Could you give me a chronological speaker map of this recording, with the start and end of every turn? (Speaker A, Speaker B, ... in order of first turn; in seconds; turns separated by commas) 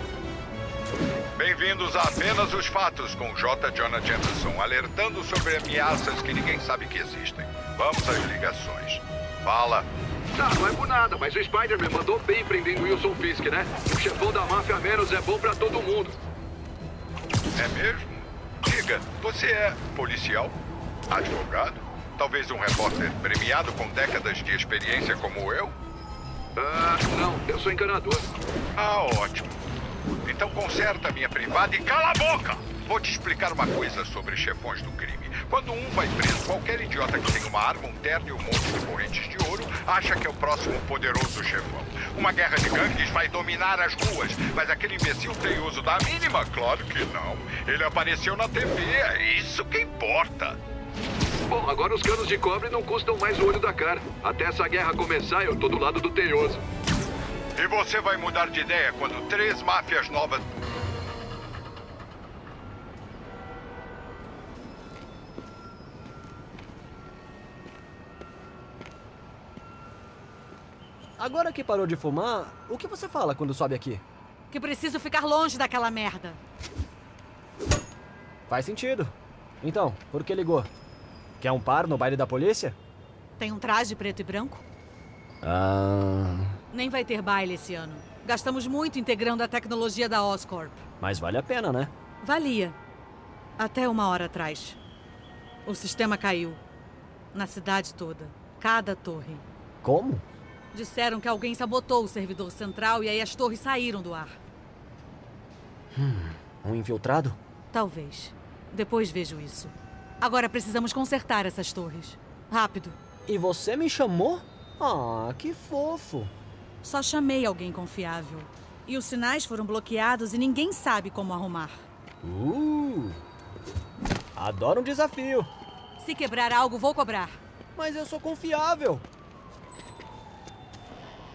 Speaker A: 1.4-9.8, Speaker B: 10.4-16.1, Speaker A: 17.6-20.5, Speaker A: 21.1-25.7, Speaker B: 26.6-28.3, Speaker A: 28.8-29.5, Speaker A: 30.2-50.6, Speaker B: 51.5-56.6, Speaker A: 57.5-60.4, Speaker C: 71.2-74.0, Speaker D: 74.5-76.4, Speaker C: 78.5-80.7, Speaker C: 81.4-82.8, Speaker D: 83.4-84.6, Speaker C: 85.4-86.6, Speaker D: 86.7-90.8, Speaker C: 91.0-91.9, Speaker D: 92.2-92.8, Speaker D: 93.6-94.8, Speaker D: 95.7-96.6, Speaker D: 97.3-99.4, Speaker C: 99.8-100.2, Speaker D: 100.7-104.3, Speaker C: 105.9-107.4, Speaker D: 107.7-113.0, Speaker C: 113.3-116.3, Speaker D: 116.8-121.8, Speaker C: 122.2-123.2, Speaker C: 124.3-125.5, Speaker D: 126.0-127.4, Speaker C: 127.7-129.0